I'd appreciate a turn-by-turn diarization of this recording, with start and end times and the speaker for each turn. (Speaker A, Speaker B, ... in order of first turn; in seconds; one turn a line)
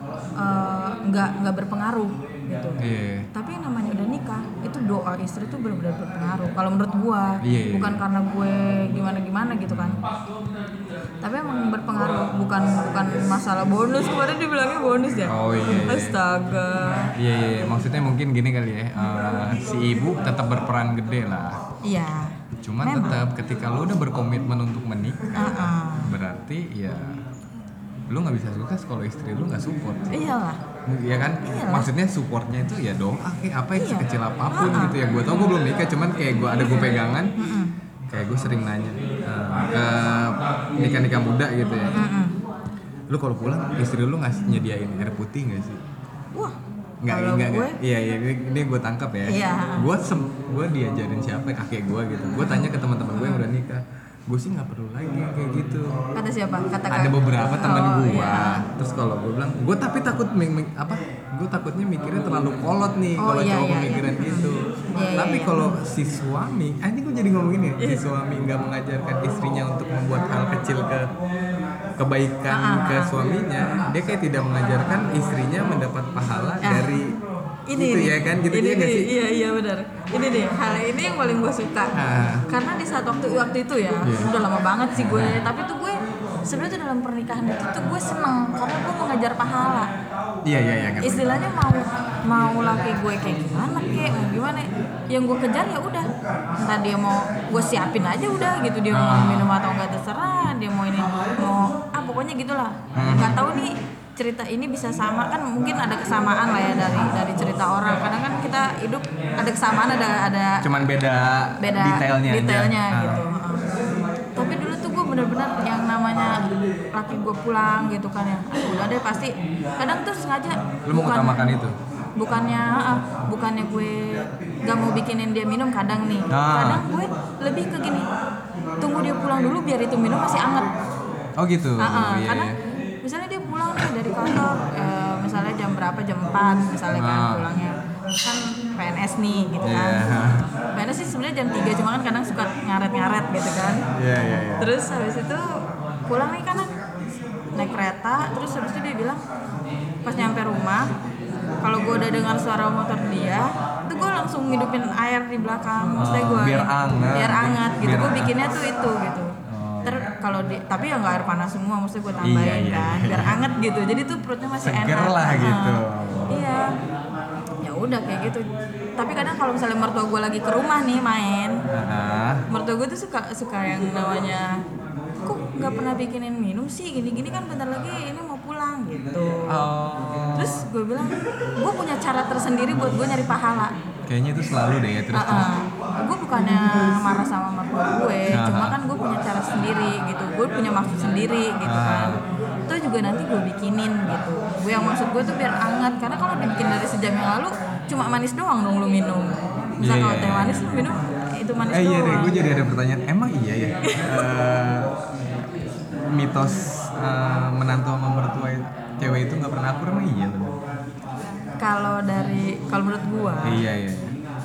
Speaker A: 0.4-2.8
Speaker B: 2.8-3.3
Speaker A: 3.3-10.1
Speaker B: 7.4-8.0
Speaker B: 9.7-10.1
Speaker A: 11.2-17.1
Speaker B: 15.3-16.2
Speaker B: 17.2-21.6
Speaker A: 21.8-23.2
Speaker B: 22.6-27.2
Speaker A: 25.4-26.1
Speaker B: 28.1-30.2
Speaker A: 30.1-30.6
Speaker B: 30.9-37.3
Speaker A: 31.4-31.9
Speaker A: 33.8-35.6
Speaker A: 36.5-37.7
Speaker B: 38.1-42.1
Speaker A: 41.9-42.4
Speaker B: 43.1-45.8
Speaker B: 47.0-56.0
Speaker A: 47.1-47.8
Speaker A: 49.2-49.9
Speaker A: 52.4-53.5
Speaker A: 56.1-58.6
Speaker B: 56.9-71.1
Speaker A: 63.2-65.8
Speaker B: 72.0-77.2
Speaker A: 72.5-73.1
Speaker A: 76.6-76.9
Speaker A: 77.7-82.0
Speaker B: 77.7-79.1
Speaker B: 82.0-82.5
Speaker A: 82.5-89.9
Speaker B: 84.0-84.4
Speaker B: 85.0-85.4
Speaker B: 90.5-91.5
Speaker A: 91.0-110.7
Speaker B: 98.9-99.5
Speaker B: 102.9-103.4
Speaker B: 106.9-107.2
Speaker B: 110.6-113.2
Speaker A: 111.6-113.6
Speaker A: 114.4-121.6
Speaker B: 120.9-121.8
Speaker A: 122.2-128.1
Speaker B: 126.3-126.8
Speaker A: 128.8-130.7
Speaker B: 131.4-132.6
Speaker A: 131.8-132.5
Speaker A: 133.0-143.8
Speaker B: 136.9-137.5
Speaker B: 139.6-140.5
Speaker B: 143.9-144.7
Speaker A: 144.6-145.5
Speaker A: 146.1-146.7
Speaker A: 147.5-149.2
Speaker A: 150.1-150.9
Speaker A: 151.6-166.7
Speaker B: 155.9-158.3
Speaker B: 159.5-160.1
Speaker B: 162.2-163.4
Speaker B: 164.6-166.4
Speaker A: 167.6-171.6
Speaker B: 171.7-172.4
Speaker A: 172.5-174.6
Speaker A: 175.2-179.7
Speaker B: 179.5-180.6
Speaker A: 180.4-183.7
Speaker B: 184.1-185.5
Speaker A: 185.1-202.4
Speaker B: 188.3-188.8
Speaker B: 191.7-192.2
Speaker B: 199.8-201.0
Speaker B: 201.7-204.9
Speaker A: 203.8-204.2
Speaker B: 206.1-210.6
Speaker A: 211.6-213.6
Speaker B: 213.4-214.2